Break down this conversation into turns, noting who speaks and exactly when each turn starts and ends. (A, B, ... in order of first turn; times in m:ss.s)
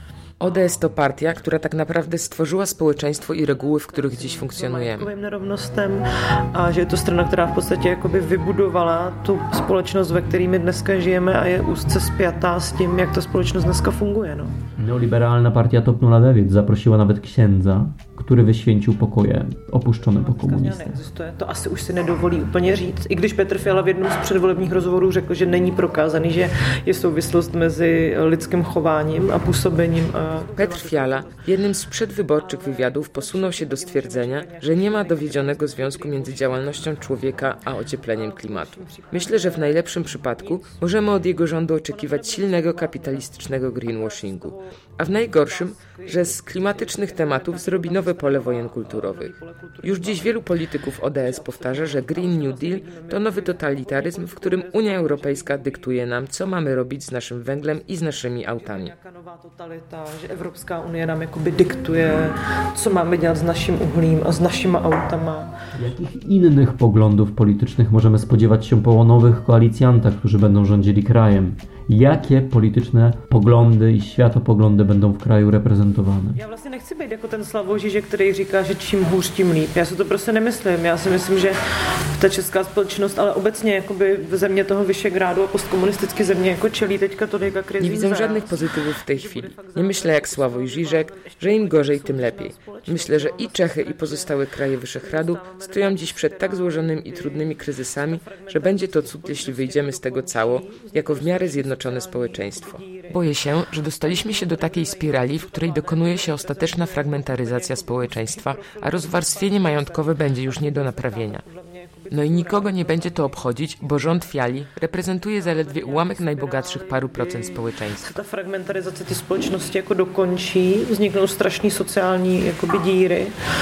0:00.4-0:05.1 A
0:04.2-0:14.5 B
0:14.8-0:21.0 C
0:20.2-0:31.4 B
0:30.6-0:58.9 A
0:32.7-0:36.7 B
0:38.1-0:39.7 B
0:42.6-0:42.9 B
0:45.3-0:50.5 B
0:51.2-0:55.9 B
0:58.5-1:05.5 B
1:05.8-1:16.4 C
1:16.4-1:21.6 B
1:22.2-1:28.7 B
1:27.8-1:51.4 A
1:29.3-1:34.4 B
1:35.0-1:36.5 B
1:38.5-1:43.3 B
1:44.0-1:53.1 B
1:52.1-1:58.1 A
1:55.4-2:03.3 B